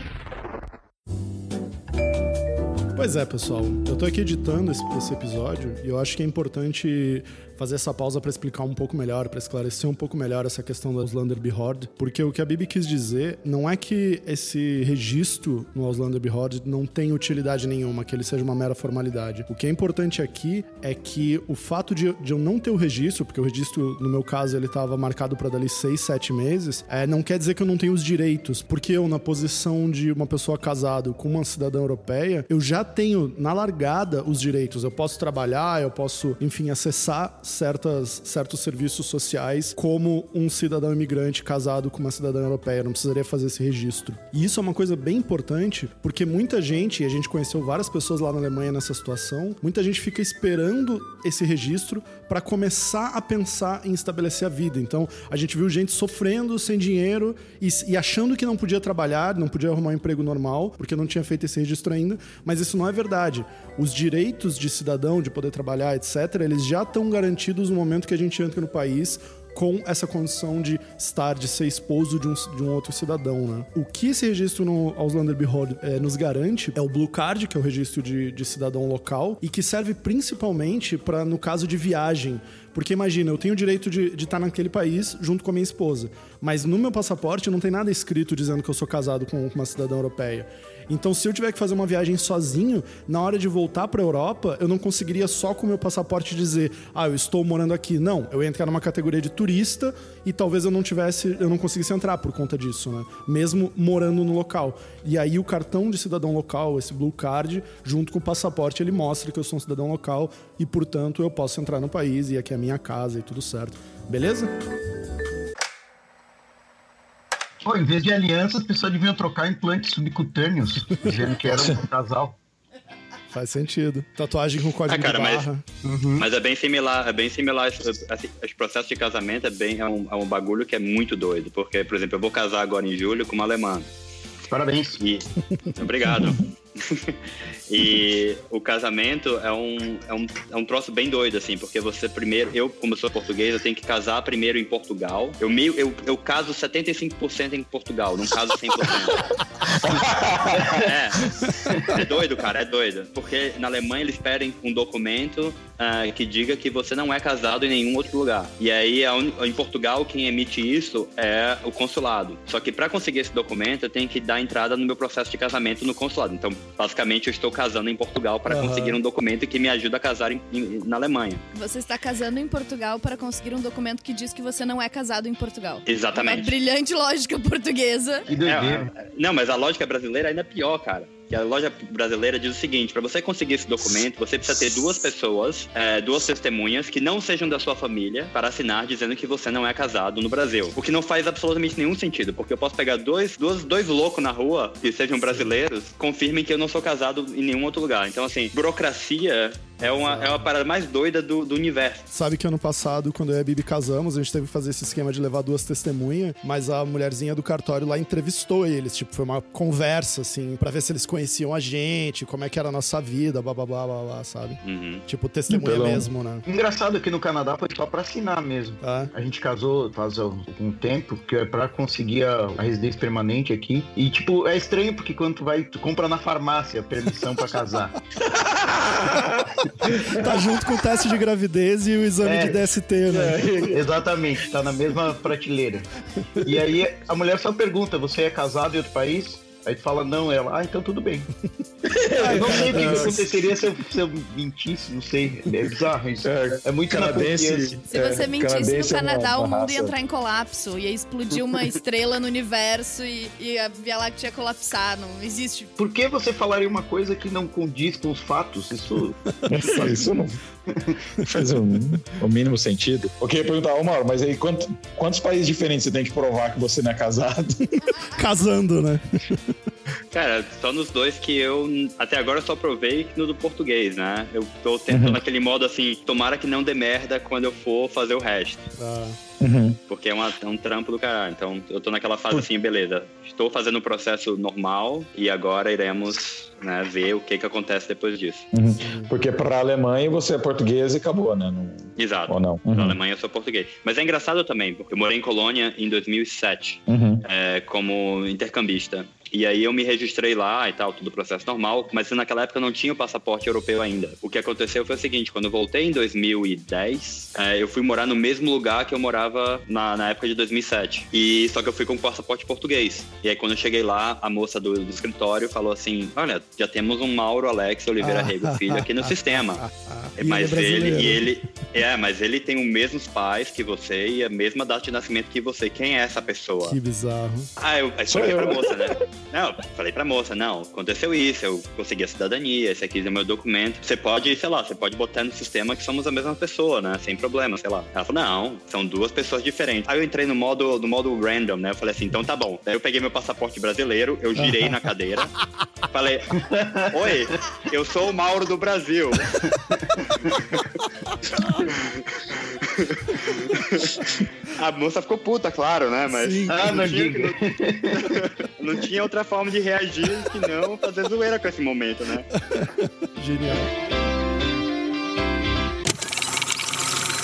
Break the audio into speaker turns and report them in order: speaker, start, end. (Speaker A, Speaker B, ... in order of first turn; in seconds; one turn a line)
Speaker A: 3.0-114.5
Speaker B: 117.6-122.3
Speaker A: 123.3-125.6
Speaker C: 124.9-125.5
Speaker B: 125.8-126.2
Speaker C: 126.2-133.9
Speaker B: 134.5-135.0
Speaker C: 135.0-149.4
Speaker D: 149.7-150.8
Speaker C: 150.0-171.4
Speaker B: 150.5-150.9
Speaker B: 151.6-152.0
Speaker A: 168.5-169.0
Speaker E: 171.5-178.3
Speaker C: 175.8-176.5
Speaker B: 178.3-178.9
Speaker C: 178.4-202.1
Speaker A: 199.8-200.5
Speaker A: 202.1-216.4
Speaker C: 214.6-215.0
Speaker D: 215.5-216.1
Speaker B: 216.4-228.0
Speaker A: 218.8-219.1
Speaker D: 228.2-230.5
Speaker A: 229.8-233.5
Speaker B: 232.2-232.7
Speaker D: 233.1-233.9
Speaker B: 233.7-235.9
Speaker B: 236.4-241.3
Speaker D: 241.8-243.3
Speaker B: 242.1-247.8
Speaker A: 242.2-243.3
Speaker D: 246.2-249.9
Speaker E: 247.8-255.7
Speaker B: 255.8-259.2
Speaker A: 259.4-260.1
Speaker D: 259.4-260.4
Speaker B: 260.7-261.0
Speaker D: 261.2-267.8
Speaker A: 268.1-269.5
Speaker C: 270.1-278.7
Speaker D: 274.9-275.2
Speaker A: 278.8-279.2
Speaker D: 279.4-279.8
Speaker C: 279.9-288.5
Speaker D: 288.5-293.0
Speaker A: 288.8-289.1
Speaker C: 292.0-319.6
Speaker D: 296.9-297.2
Speaker A: 318.0-321.2
Speaker C: 320.2-326.8
Speaker A: 326.6-327.5
Speaker C: 327.6-345.3
Speaker D: 328.1-329.0
Speaker A: 344.4-344.8
Speaker C: 345.9-349.4
Speaker B: 346.4-347.1
Speaker C: 351.6-357.4
Speaker A: 356.1-356.9
Speaker B: 356.5-358.2
Speaker C: 357.9-362.3
Speaker A: 362.5-363.7